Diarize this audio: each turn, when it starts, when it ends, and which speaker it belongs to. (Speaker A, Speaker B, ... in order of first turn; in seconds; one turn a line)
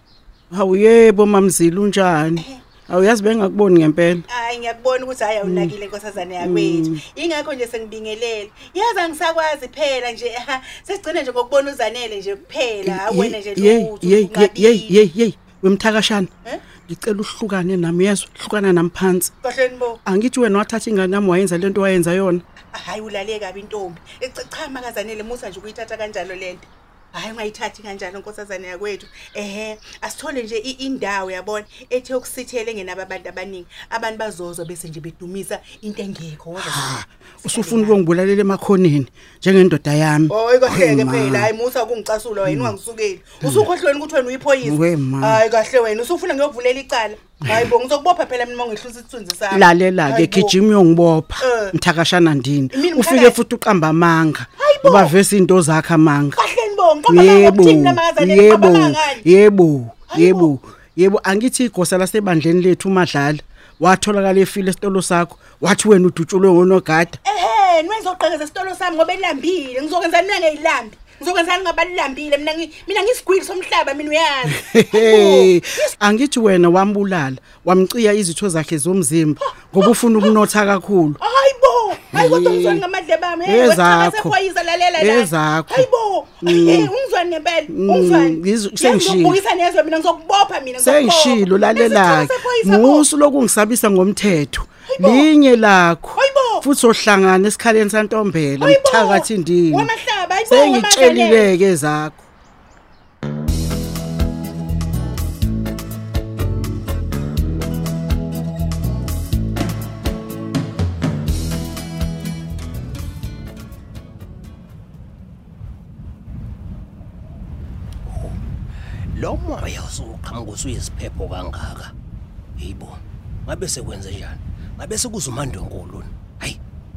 Speaker A: 0.5-4.2
Speaker B: 4.3-15.0
Speaker A: 5.4-5.7
Speaker A: 6.4-7.0
Speaker A: 12.8-16.3
Speaker A: 16.9-19.3
Speaker B: 19.4-20.0
Speaker A: 20.0-22.4
Speaker B: 22.7-38.0
Speaker A: 36.6-41.5
Speaker B: 40.3-50.5
Speaker A: 42.4-42.7
Speaker A: 44.6-45.4
Speaker A: 49.5-56.4
Speaker B: 51.4-51.7
Speaker B: 52.7-53.4
Speaker B: 54.6-55.1
Speaker B: 56.3-59.2
Speaker A: 57.1-67.2
Speaker B: 60.1-60.5
Speaker B: 67.2-75.9
Speaker A: 74.5-81.2
Speaker B: 79.8-80.3
Speaker B: 81.2-93.0
Speaker A: 82.1-82.8
Speaker A: 83.4-84.3
Speaker A: 85.0-85.8
Speaker A: 86.4-86.9
Speaker A: 87.7-89.4
Speaker A: 90.8-99.9
Speaker B: 94.9-95.3
Speaker B: 96.1-96.6
Speaker B: 98.6-101.5
Speaker A: 100.5-102.2
Speaker C: 118.0-118.4
Speaker C: 119.1-121.9
Speaker C: 122.6-126.6